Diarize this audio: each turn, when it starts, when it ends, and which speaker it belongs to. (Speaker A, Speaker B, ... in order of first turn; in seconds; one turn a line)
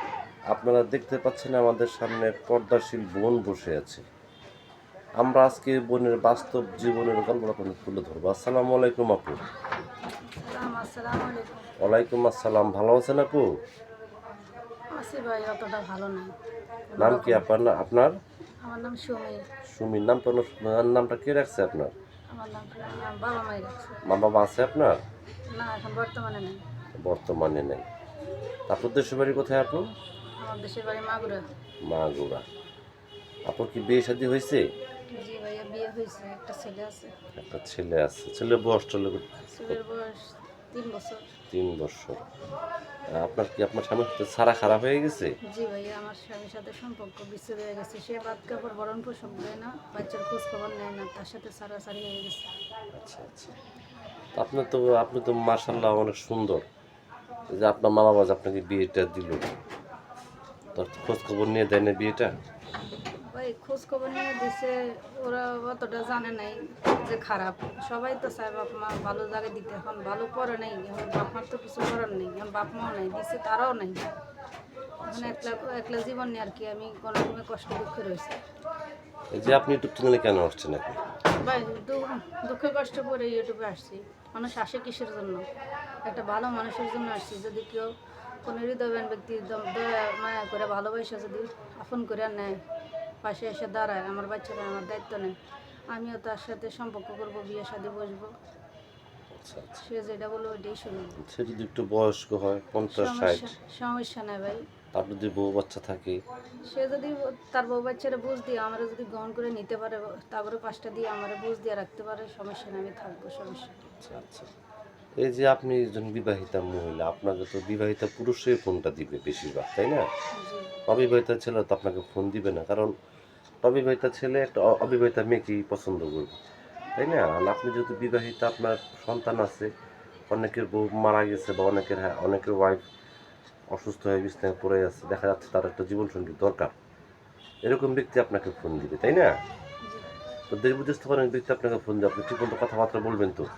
Speaker A: 0.5-4.0
Speaker A: 5.2-9.4
Speaker B: 10.4-11.7
Speaker A: 11.8-13.4
Speaker B: 15.0-16.3
Speaker B: 16.9-17.5
Speaker A: 17.0-18.2
Speaker B: 18.6-19.4
Speaker A: 19.7-21.9
Speaker B: 22.3-24.0
Speaker A: 24.1-25.0
Speaker B: 25.5-26.6
Speaker A: 27.0-27.9
Speaker A: 28.7-29.9
Speaker B: 30.4-31.4
Speaker A: 31.9-32.4
Speaker A: 33.5-34.6
Speaker B: 35.2-37.1
Speaker A: 37.4-39.8
Speaker B: 39.5-41.3
Speaker A: 41.5-42.2
Speaker A: 43.2-45.3
Speaker B: 45.5-52.5
Speaker A: 53.0-53.5
Speaker A: 54.4-56.6
Speaker A: 57.5-59.5
Speaker A: 60.8-62.3
Speaker B: 63.3-74.1
Speaker A: 75.0-75.6
Speaker B: 75.1-78.4
Speaker A: 79.3-81.0
Speaker B: 81.4-85.5
Speaker B: 86.0-87.9
Speaker B: 88.4-92.6
Speaker B: 93.2-95.4
Speaker B: 95.9-98.3
Speaker A: 99.3-99.8
Speaker B: 99.8-101.2
Speaker A: 101.2-103.5
Speaker B: 102.9-104.6
Speaker A: 104.9-106.2
Speaker B: 106.7-113.8
Speaker A: 114.0-114.5
Speaker A: 115.2-120.1
Speaker B: 120.3-120.8
Speaker A: 120.9-122.9
Speaker A: 123.6-126.4
Speaker A: 127.0-129.7
Speaker A: 130.3-132.8
Speaker A: 133.7-136.7
Speaker A: 137.7-139.3
Speaker A: 140.5-143.5